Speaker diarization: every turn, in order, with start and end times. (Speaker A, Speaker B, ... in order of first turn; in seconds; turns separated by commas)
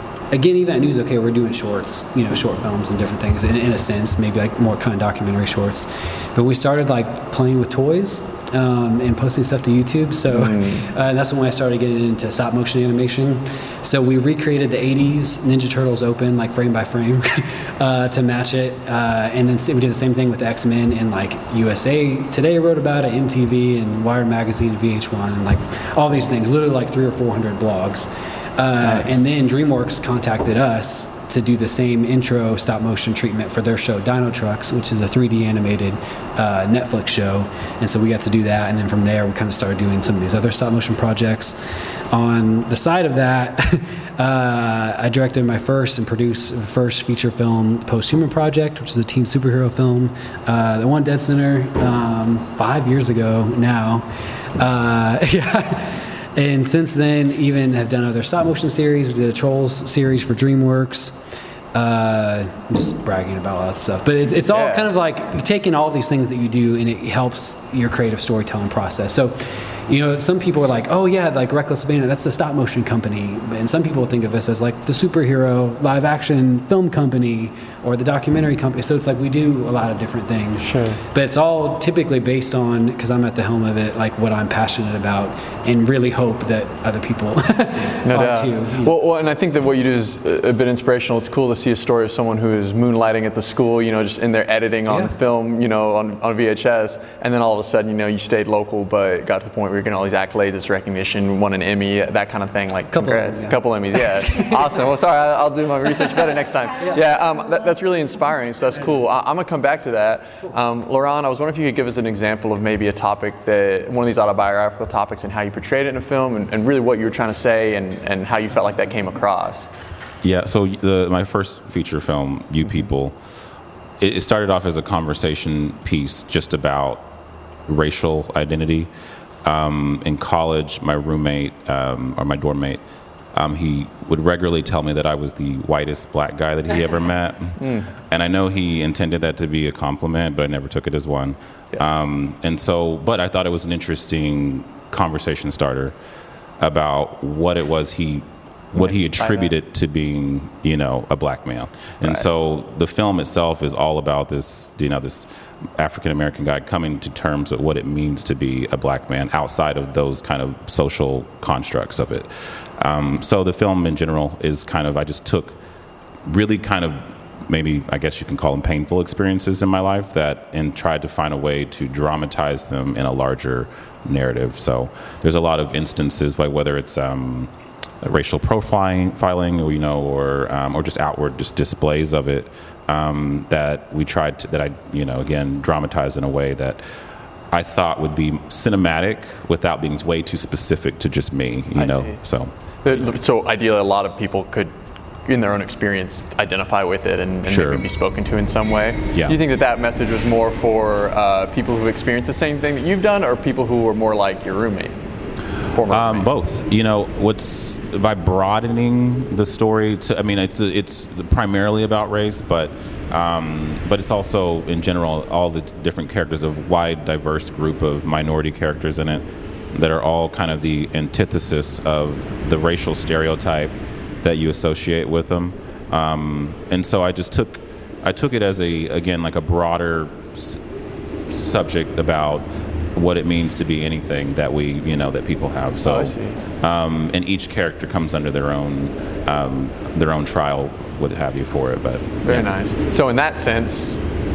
Speaker A: 0.3-61.1, Speaker B: 10.3-10.9, Speaker B: 28.8-29.2, Speaker A: 61.7-88.9, Speaker B: 64.5-64.9, Speaker B: 80.6-81.0, Speaker B: 88.0-119.7, Speaker A: 102.9-104.7, Speaker C: 120.2-123.1, Speaker C: 124.0-127.1, Speaker C: 127.7-128.9, Speaker C: 129.4-132.8, Speaker C: 133.3-145.9, Speaker B: 137.6-137.9, Speaker C: 146.6-162.3, Speaker B: 148.8-149.5, Speaker C: 162.8-165.6, Speaker C: 166.3-177.5, Speaker C: 178.0-186.8, Speaker C: 187.5-193.1, Speaker B: 191.7-192.2, Speaker B: 192.8-204.9, Speaker C: 197.4-197.8, Speaker B: 205.7-206.3, Speaker C: 205.9-230.6, Speaker C: 231.3-242.5, Speaker B: 235.8-236.3, Speaker B: 242.2-244.0